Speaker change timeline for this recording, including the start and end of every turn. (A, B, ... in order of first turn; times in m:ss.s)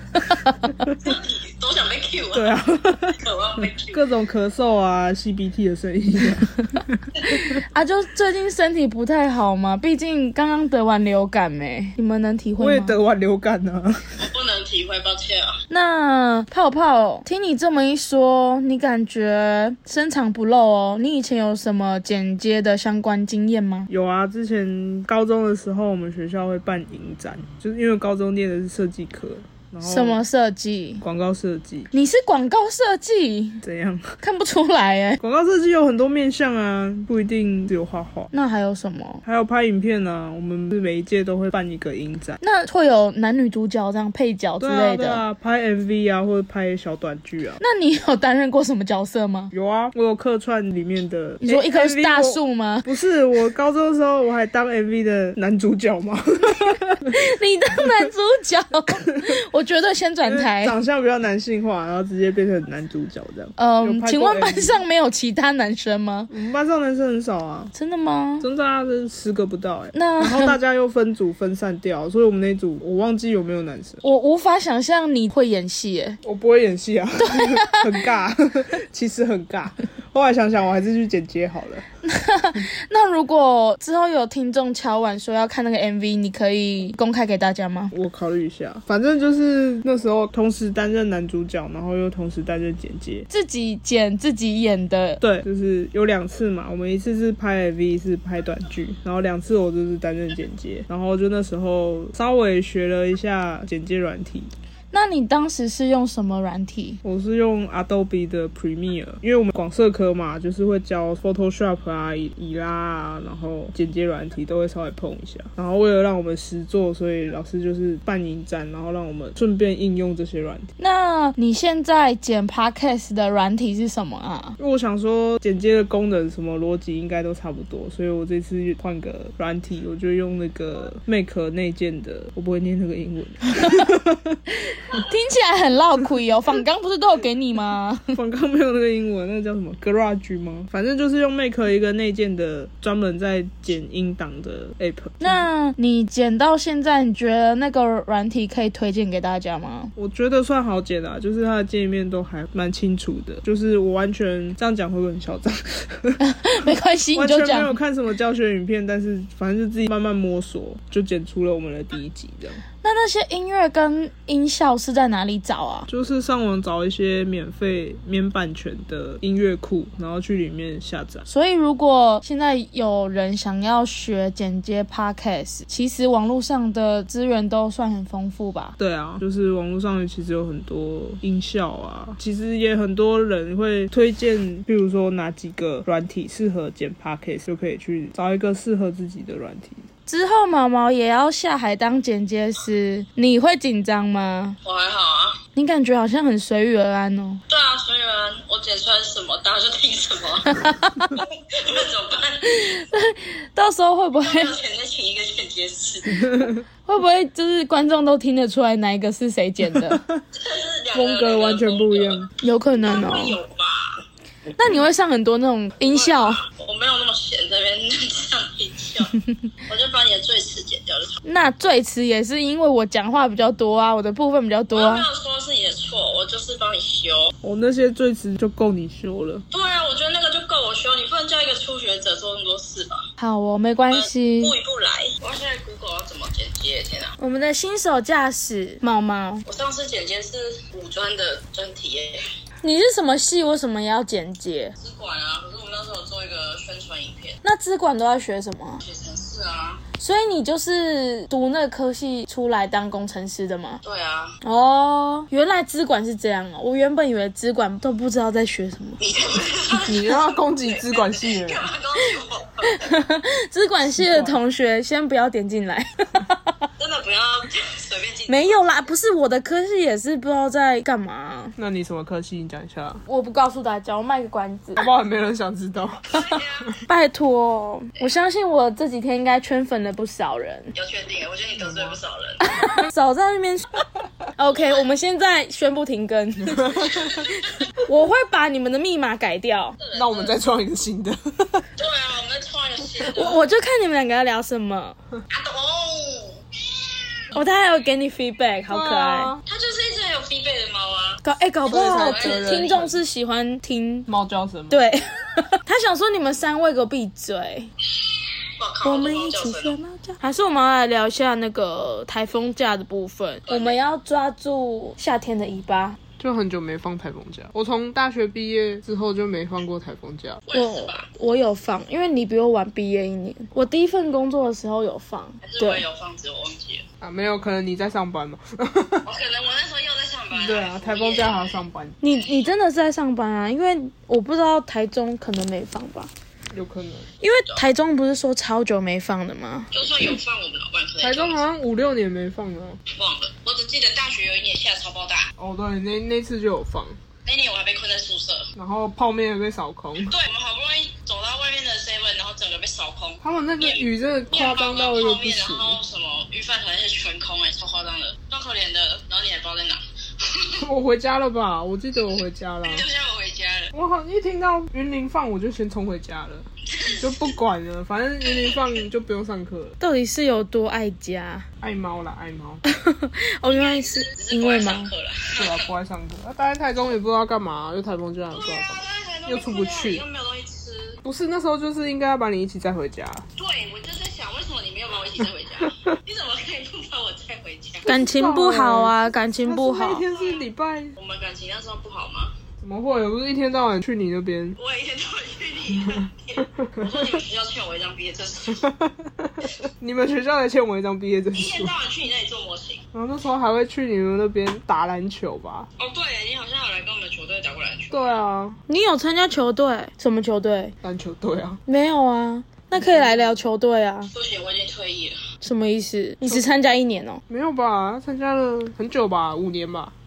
0:00.2-0:00.6 A
0:00.5-0:01.0 B
0:01.0-0:02.6 C
0:02.3-0:03.2 B
0:03.2-0:04.0 C
0:03.9-0:07.6 B
0:07.2-0:13.0 A
0:12.6-0:14.0 B
0:14.2-0:15.6 C
0:15.7-0:23.9 A
0:23.9-0:30.2 B
0:29.8-0:31.0 A
0:31.0-0:31.9 B
0:31.9-0:33.6 A
0:33.6-0:34.2 B
0:34.2-0:35.2 A
0:35.2-0:38.3 B
0:38.3-0:39.2 A
0:39.2-0:42.4 B
0:42.4-0:45.2 A
0:44.6-0:47.6 B
0:47.6-0:49.5 A
0:49.5-0:57.0 B
0:51.4-0:52.9 A
0:57.1-1:00.8 A
1:00.2-1:04.8 B
1:03.6-1:06.3 A
1:06.3-1:07.7 B
1:07.7-1:08.5 A
1:08.4-1:14.0 B
1:09.9-1:10.6 A
1:14.0-1:16.2 A
1:16.2-1:21.8 B
1:17.2-1:17.9 A
1:22.0-1:27.9 A
1:27.9-1:33.3 B
1:33.3-1:35.2 A
1:35.2-1:44.5 B
1:44.9-1:47.0 A
1:47.0-2:00.7 B
2:00.8-2:04.6 A
2:04.6-2:14.4 B
2:14.9-2:18.2 A
2:18.1-2:25.5 B
2:25.2-2:29.9 A
2:30.0-2:36.2 B
2:36.2-2:37.8 A
2:37.1-2:42.6 B
2:42.8-2:45.9 A
2:45.9-2:51.3 B
2:51.3-2:58.8 A
2:58.8-3:09.9 B
3:10.1-3:14.6 A
3:14.6-3:15.4 C
3:15.6-3:17.4 A
3:17.5-3:22.8 C
3:20.6-3:21.1 A
3:22.5-3:24.6 A
3:24.2-3:26.3 C
3:26.2-3:26.6 B
3:26.8-3:30.0 A
3:29.7-3:30.2 B
3:30.4-3:34.0 C
3:30.9-3:32.3 B
3:32.4-3:33.4 A
3:34.6-3:36.4 A
3:35.8-3:39.1 C
3:39.7-3:41.2 C
3:41.2-3:45.1 A
3:44.7-3:47.3 C
3:47.4-3:49.4 B
3:49.5-3:53.0 C
3:53.2-3:54.6 A
3:53.9-3:57.2 C
3:57.2-3:59.4 A
3:59.4-4:02.2 C
4:02.6-4:04.8 A
4:04.8-4:07.4 C
4:07.4-4:08.8 A
4:08.8-4:09.8 C
4:10.0-4:13.8 A
4:13.8-4:14.4 C
4:14.4-4:19.0 A
4:19.0-4:22.9 C
4:19.8-4:21.7 D
4:22.6-4:26.6 A
4:24.0-4:24.4 B
4:26.8-4:28.8 C
4:28.3-4:31.6 A
4:31.6-4:33.0 D
4:33.1-4:34.9 A
4:34.8-4:36.0 D
4:36.1-4:36.8 C
4:36.1-4:40.7 A
4:40.8-4:42.4 C
4:41.6-4:42.0 D
4:42.4-4:43.8 A
4:44.4-4:49.8 A
4:44.5-4:44.9 C
4:46.5-4:47.1 D
4:49.8-4:50.4 C
4:49.9-4:51.6 D
4:51.8-4:53.4 C
4:53.1-4:55.0 A
4:55.3-4:57.2 C
4:57.3-4:59.4 A
4:58.7-4:59.4 D
4:59.5-5:02.7 C
5:01.2-5:04.1 A
5:01.7-5:03.0 D
5:04.1-5:04.8 D
5:04.7-5:07.7 A
5:08.6-5:09.8 C
5:08.8-5:16.0 A
5:13.5-5:13.8 C
5:16.2-5:20.4 D
5:20.5-5:21.1 C
5:20.5-5:25.8 A
5:25.4-5:26.8 C
5:27.0-5:29.0 D
5:29.0-5:32.5 C
5:30.3-5:32.0 D
5:32.0-5:36.1 A
5:36.5-5:37.1 D
5:37.2-5:39.7 A
5:39.7-5:41.4 C
5:41.0-5:42.8 D
5:42.9-5:45.3 C
5:45.6-5:47.0 D
5:47.2-5:48.5 C
5:48.6-5:50.2 B
5:50.1-6:00.7 C
5:53.2-5:55.8 D
6:00.6-6:02.9 D
6:02.2-6:03.7 C
6:03.8-6:06.4 D
6:06.7-6:07.4 C
6:07.0-6:09.8 D
6:08.2-6:08.9 C
6:09.8-6:11.5 A
6:11.6-6:12.6 D
6:12.7-6:14.9 A
6:13.4-6:15.7 C
6:15.4-6:20.0 D
6:18.3-6:21.0 C
6:21.0-6:23.2 D
6:23.4-6:27.9 C
6:27.9-6:30.1 A
6:27.9-6:30.9 D
6:28.3-6:28.8 B
6:30.1-6:32.3 C
6:32.6-6:34.6 B
6:34.6-6:38.7 C
6:39.8-6:41.7 B
6:41.4-6:42.8 C
6:43.0-6:45.7 B
6:45.8-6:48.2 C
6:47.9-6:48.6 B
6:48.7-6:50.7 A
6:50.8-6:51.6 B
6:51.2-6:51.6 D
6:51.7-6:54.1 A
6:52.8-6:53.4 D
6:54.1-6:55.2 C
6:55.4-6:57.2 A
6:57.3-6:59.9 D